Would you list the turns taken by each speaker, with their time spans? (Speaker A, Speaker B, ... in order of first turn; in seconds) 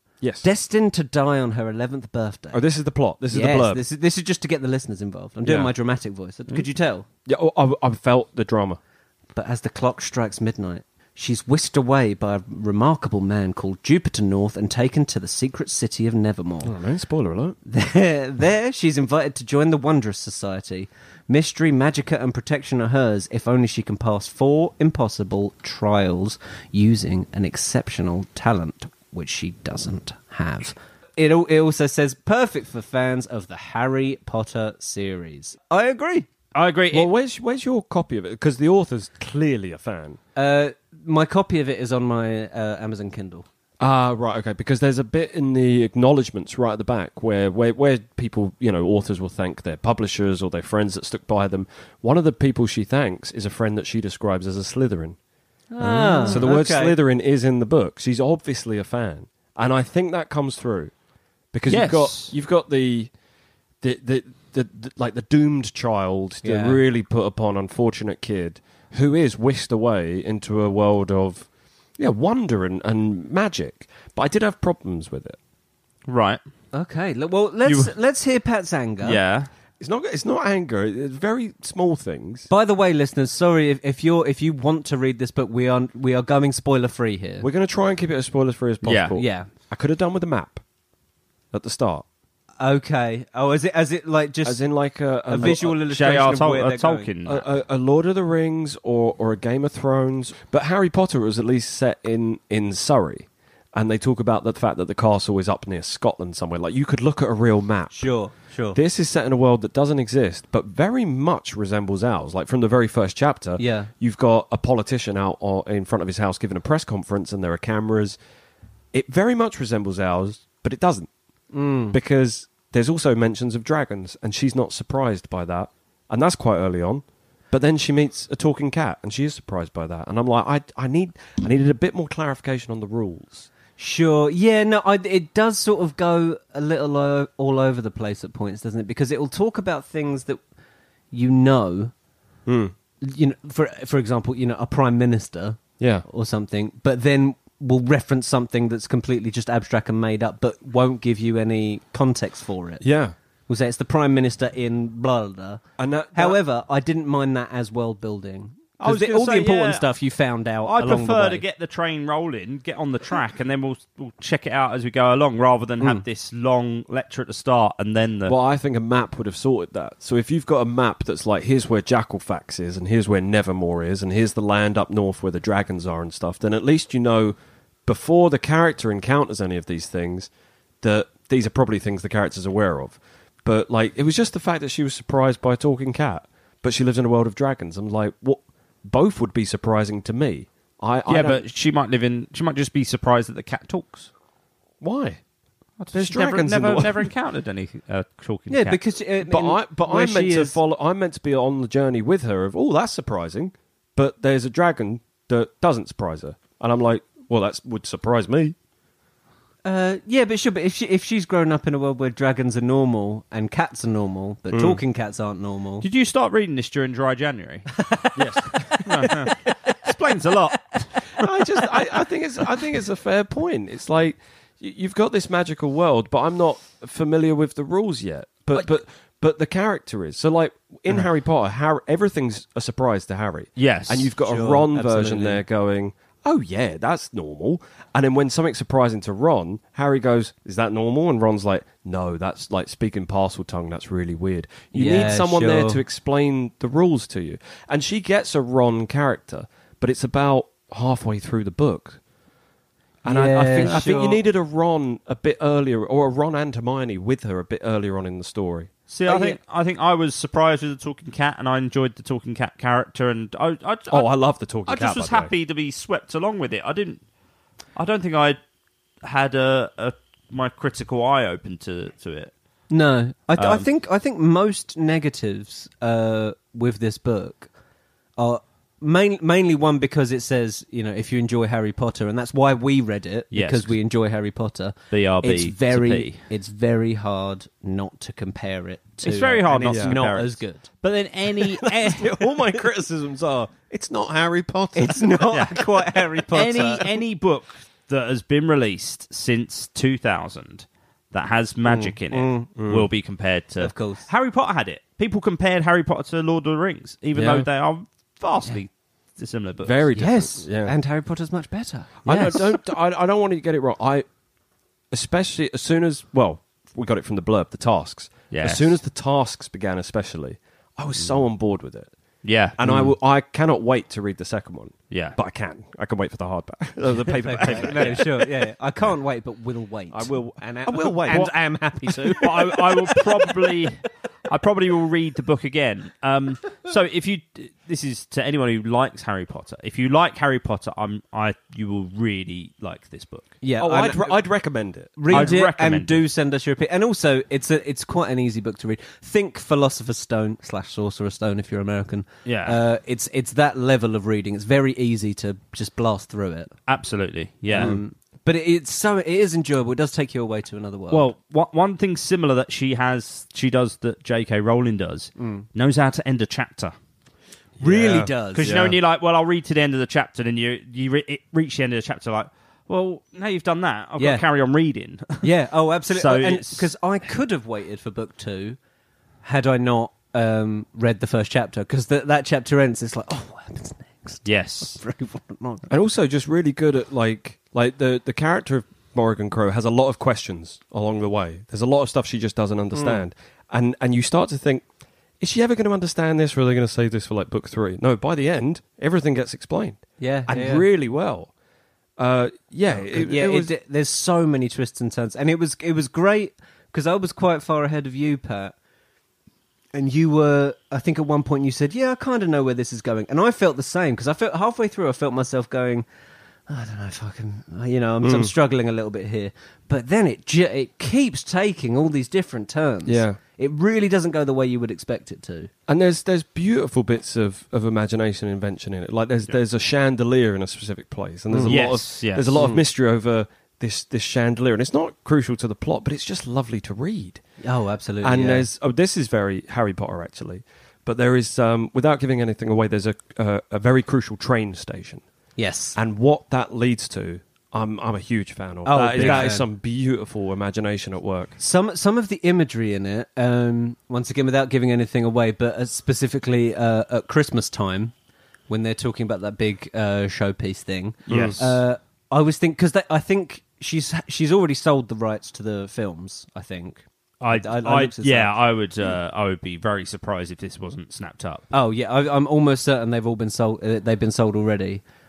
Speaker A: 0.2-0.5, 2.5-3.8, 5.4-5.7, 7.3-8.8, 16.6-17.6, 36.9-40.2, 43.8-55.2, 56.3-60.9, 61.5-63.1, 63.8-75.4, 79.8-82.5, 87.4-90.6, 91.5-92.0, 94.4-95.8, 97.2-108.1, 108.7-118.2, 118.9-121.1, 121.9-133.5, 142.5-142.7, 145.8-146.1, 152.8-153.2, 155.8-156.4, 168.3-180.3, 180.8-191.4, 194.8-195.2, 195.9-197.1, 199.3-208.6, 214.5-214.8, 218.2-219.1, 221.2-252.0, 253.0-258.7, 263.9-265.3, 289.7-290.0, 291.6-295.4, 302.6-302.9, 307.1-307.5, 309.6-310.7, 312.1-314.1, 314.9-321.9, 322.6-328.3, 329.9-332.6, 343.6-345.4, 357.6-357.8, 367.6-368.8, 385.7-394.6, 395.2-401.3, 402.0-403.5, 418.0-418.3, 422.9-423.2, 425.7-437.2, 438.0-445.0, 445.8-451.4, 461.1-461.6
Speaker B: 0.4-2.6, 3.3-7.1, 9.3-16.8, 17.7-36.3, 40.4-43.5, 55.7-57.0, 66.4-66.8, 76.7-79.2, 82.5-87.5, 89.2-89.5, 92.6-97.1, 107.9-108.8, 113.6-113.9, 121.5-122.0, 133.8-140.4, 141.1-141.9, 143.0-152.8, 153.5-155.6, 156.1-161.4, 198.5-200.6, 209.7-215.9, 218.1-219.3, 234.2-235.4, 244.7-245.8, 253.1-254.2, 259.1-259.4, 272.7-277.5, 278.2-290.7, 294.8-296.9, 302.1-302.5, 303.6-304.1, 310.0-312.5, 327.2-333.2, 343.4-344.2, 345.0-356.5, 357.5-361.1, 365.2-365.4, 367.6-368.7, 374.0-374.2, 375.2-378.6, 379.2-385.6, 400.0-400.7, 402.9-408.5, 409.7-415.9, 416.5-425.5, 431.3-431.6, 432.4-432.6, 437.4-438.5, 445.4-445.8, 448.6-449.5, 451.4-457.9, 458.5-468.4, 471.5-474.8
Speaker C: 36.5-37.1, 55.8-56.5, 61.7-62.3, 76.1-76.4, 77.7-77.9, 79.0-79.5, 88.8-89.2, 95.9-97.5, 158.8-159.9, 160.7-168.4, 191.1-194.1, 195.8-198.8, 215.8-217.8, 218.8-221.0, 233.6-234.1, 253.6-253.9, 258.9-267.0, 267.8-268.4, 269.0-272.3, 273.4-273.7, 283.3-283.8, 284.9-286.2, 289.0-292.1, 295.3-309.9, 318.3-318.7, 322.2-322.9, 324.9-325.2, 327.4-328.0, 332.1-343.4, 345.1-346.0, 352.2-352.6, 356.7-357.8, 360.9-366.7, 368.3-375.3, 375.9-376.7, 384.2-384.8, 431.5-432.4, 449.0-449.3, 461.1-461.4, 467.2-471.5